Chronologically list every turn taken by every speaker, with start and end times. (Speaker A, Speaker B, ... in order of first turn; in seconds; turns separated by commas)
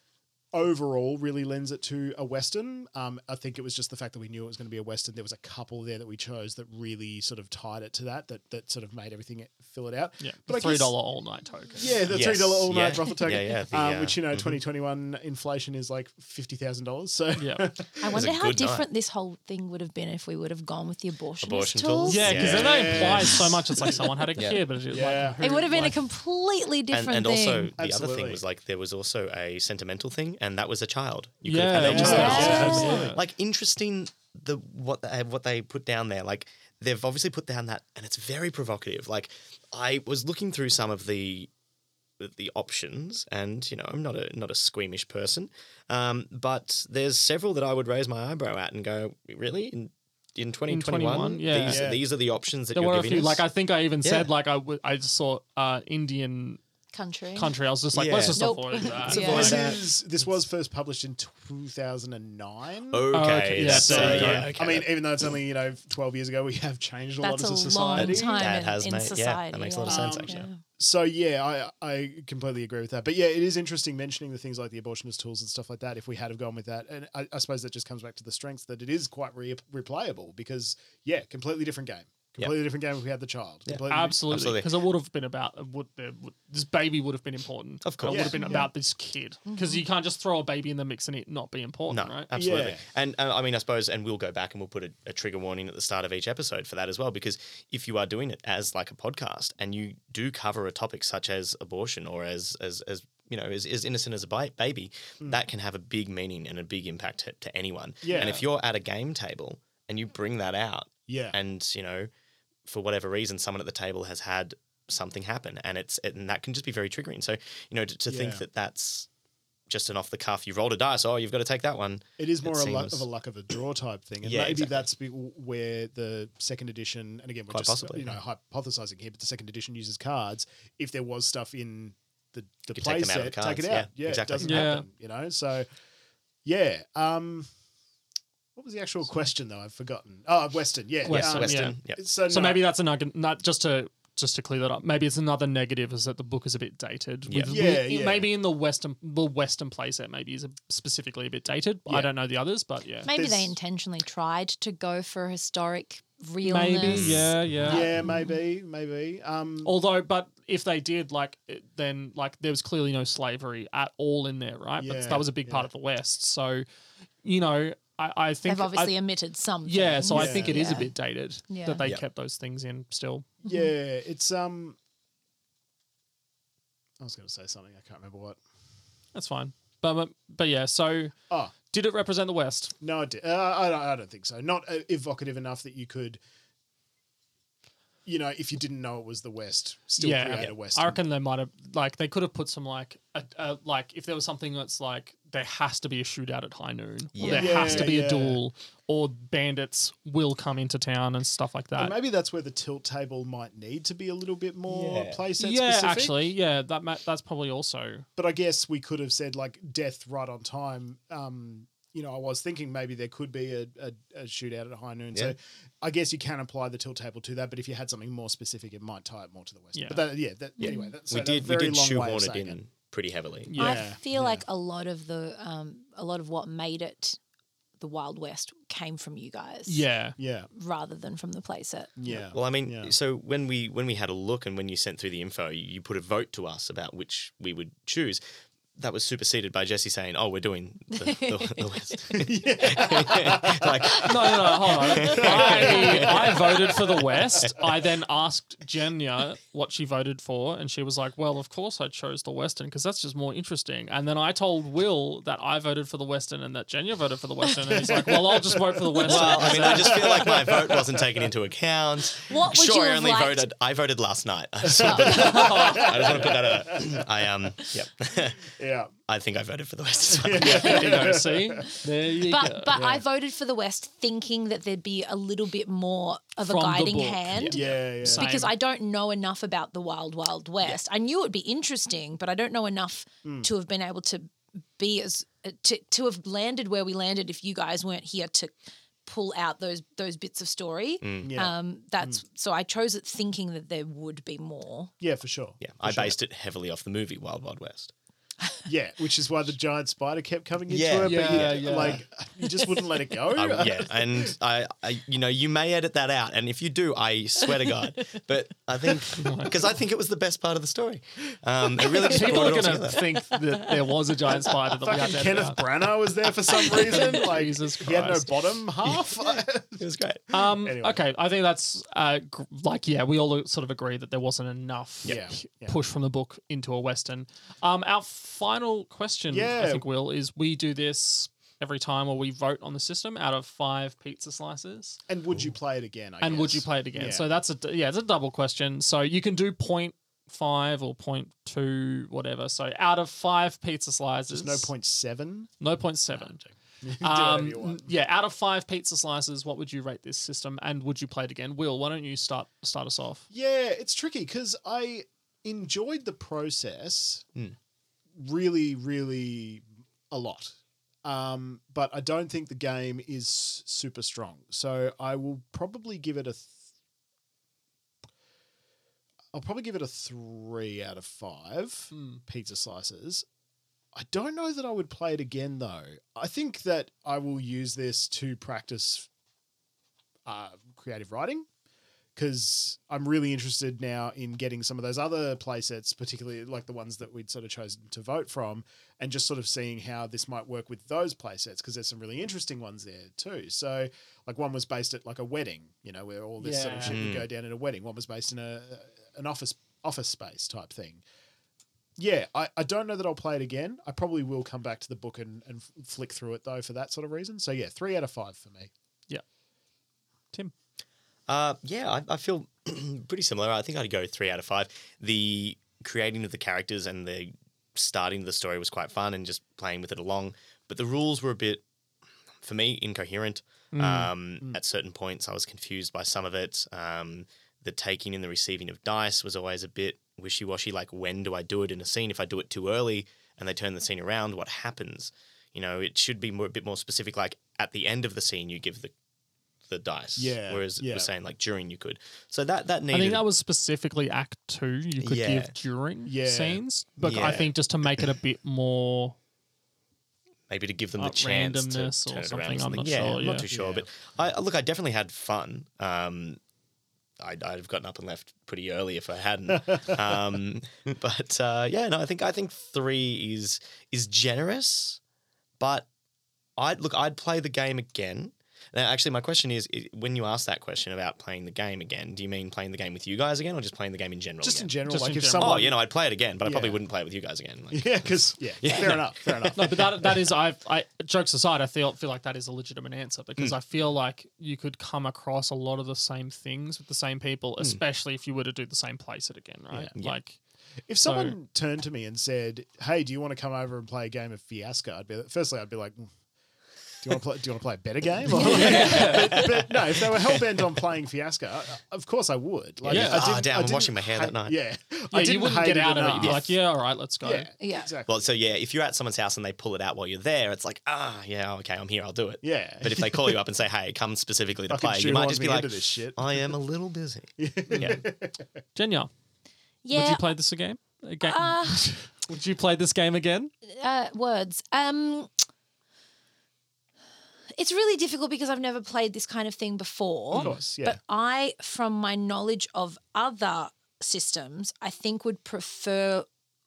Speaker A: 0.5-10.9, Speaker B: 10.2-12.0, Speaker A: 11.8-18.3, Speaker C: 12.1-14.6, Speaker B: 17.4-17.7, Speaker D: 18.0-22.5, Speaker C: 18.1-18.9, Speaker C: 21.4-23.5, Speaker B: 22.1-26.0, Speaker A: 22.3-24.0, Speaker C: 24.4-24.6, Speaker A: 24.9-25.9, Speaker D: 25.4-27.7, Speaker C: 26.9-41.5, Speaker A: 27.8-28.4, Speaker B: 31.4-33.2, Speaker A: 31.8-33.2, Speaker D: 31.9-33.1, Speaker C: 42.2-53.5, Speaker B: 50.7-51.9, Speaker A: 51.7-52.0, Speaker B: 52.7-56.6, Speaker C: 54.0-54.3, Speaker D: 56.9-57.6, Speaker B: 57.4-59.7, Speaker C: 57.9-59.8, Speaker D: 58.3-59.8, Speaker A: 59.1-68.5, Speaker C: 62.9-65.0, Speaker B: 63.1-64.5, Speaker D: 67.2-70.6, Speaker C: 68.0-70.5, Speaker A: 69.8-84.2, Speaker C: 83.7-84.7, Speaker B: 83.9-92.3, Speaker C: 87.8-88.5, Speaker A: 88.1-88.7, Speaker D: 88.4-88.7, Speaker D: 89.5-89.8, Speaker C: 91.9-112.1, Speaker A: 92.3-92.8, Speaker A: 108.0-108.4, Speaker B: 108.1-108.4, Speaker A: 111.1-111.4, Speaker C: 112.7-119.1, Speaker A: 118.1-118.4, Speaker C: 119.7-123.1, Speaker A: 122.2-135.7, Speaker C: 124.2-124.9, Speaker C: 127.5-128.2, Speaker C: 132.7-134.8, Speaker B: 134.4-134.9, Speaker A: 136.4-137.5, Speaker A: 138.6-142.6, Speaker B: 141.1-153.1, Speaker C: 141.1-142.0, Speaker C: 147.3-147.7, Speaker A: 147.5-148.3, Speaker D: 153.0-158.3, Speaker A: 153.1-153.5, Speaker B: 156.4-157.9, Speaker C: 156.9-157.8, Speaker A: 157.7-159.7, Speaker B: 159.7-166.7, Speaker A: 164.8-165.7, Speaker B: 167.2-168.9, Speaker D: 168.5-170.9, Speaker B: 169.6-173.3, Speaker A: 170.1-170.7, Speaker D: 171.5-171.8, Speaker A: 173.4-174.8, Speaker D: 173.5-173.7, Speaker A: 177.0-178.4, Speaker B: 179.1-181.2, Speaker B: 181.7-182.8, Speaker A: 182.8-186.2, Speaker A: 188.1-191.0, Speaker B: 190.0-201.9, Speaker C: 197.1-197.9, Speaker D: 197.2-197.8, Speaker A: 197.3-198.4, Speaker A: 201.8-206.2, Speaker C: 204.7-205.2, Speaker B: 205.4-208.1, Speaker A: 208.2-222.6, Speaker B: 219.8-220.1, Speaker D: 220.6-220.9, Speaker C: 220.6-223.5, Speaker B: 223.5-223.9, Speaker A: 223.6-224.4, Speaker D: 223.6-227.2, Speaker D: 227.8-229.8, Speaker B: 229.7-230.2, Speaker A: 230.2-230.5, Speaker D: 230.5-232.2, Speaker A: 232.0-232.9, Speaker C: 232.3-238.2, Speaker C: 238.8-246.6, Speaker D: 241.0-241.9, Speaker A: 242.1-244.0, Speaker B: 244.0-260.1, Speaker A: 245.0-247.3, Speaker A: 257.9-261.2, Speaker C: 259.0-268.5, Speaker D: 262.3-263.5, Speaker A: 264.7-267.1, Speaker D: 264.7-265.9, Speaker B: 265.1-266.3, Speaker A: 268.5-268.9, Speaker C: 269.1-271.1, Speaker A: 270.1-271.8, Speaker B: 270.4-272.8, Speaker D: 272.2-294.9, Speaker A: 272.7-273.0, Speaker B: 276.4-278.6, Speaker C: 277.3-277.6, Speaker A: 277.5-278.3, Speaker A: 283.2-283.5, Speaker C: 291.0-291.3, Speaker A: 291.2-292.2, Speaker A: 295.0-296.2, Speaker C: 295.6-297.9, Speaker A: 298.7-304.3, Speaker C: 300.7-302.0, Speaker B: 301.0-302.0, Speaker C: 303.3-313.2, Speaker B: 309.1-309.6, Speaker B: 312.0-315.8, Speaker A: 314.9-321.0, Speaker B: 316.6-318.6, Speaker C: 318.8-320.2, Speaker B: 320.3-335.0, Speaker A: 325.1-325.8, Speaker A: 329.3-329.9, Speaker A: 335.1-337.3, Speaker B: 336.2-344.7, Speaker A: 344.3-345.5, Speaker B: 345.6-346.4, Speaker A: 346.1-347.9, Speaker B: 347.0-353.2, Speaker A: 353.3-357.2, Speaker A: 358.2-366.6, Speaker A: 369.3-373.2, Speaker B: 371.9-372.2, Speaker A: 373.9-379.1, Speaker A: 380.3-381.5, Speaker A: 382.2-401.0, Speaker B: 396.4-397.0, Speaker C: 396.9-397.3, Speaker A: 402.0-408.7, Speaker C: 411.3-421.6, Speaker C: 422.4-438.9, Speaker B: 423.7-424.1, Speaker C: 439.7-443.2, Speaker A: 440.2-441.1, Speaker B: 442.9-449.1, Speaker C: 445.0-445.6, Speaker A: 446.1-447.5, Speaker C: 447.0-447.5, Speaker C: 450.5-456.4, Speaker B: 451.0-453.5, Speaker A: 453.3-453.9, Speaker C: 457.2-465.0, Speaker C: 465.6-465.9, Speaker C: 466.6-474.7, Speaker A: 474.4-475.8, Speaker B: 474.9-475.7, Speaker C: 475.4-479.8, Speaker A: 476.4-476.8, Speaker A: 477.7-479.8, Speaker B: 479.6-490.4, Speaker A: 490.9-496.1, Speaker B: 491.1-491.4, Speaker A: 497.0-506.6, Speaker B: 498.3-499.5, Speaker D: 498.3-499.1, Speaker C: 498.4-500.6, Speaker C: 502.8-504.6, Speaker B: 502.9-503.3, Speaker B: 505.1-507.5, Speaker A: 507.2-508.2, Speaker D: 507.6-507.9, Speaker C: 508.1-518.0, Speaker A: 512.4-513.4, Speaker A: 514.7-516.4, Speaker A: 517.4-518.5, Speaker B: 518.8-519.1, Speaker D: 519.8-520.3, Speaker B: 519.9-523.5, Speaker D: 521.2-522.0, Speaker D: 523.7-525.3, Speaker D: 527.5-536.3, Speaker A: 530.4-531.0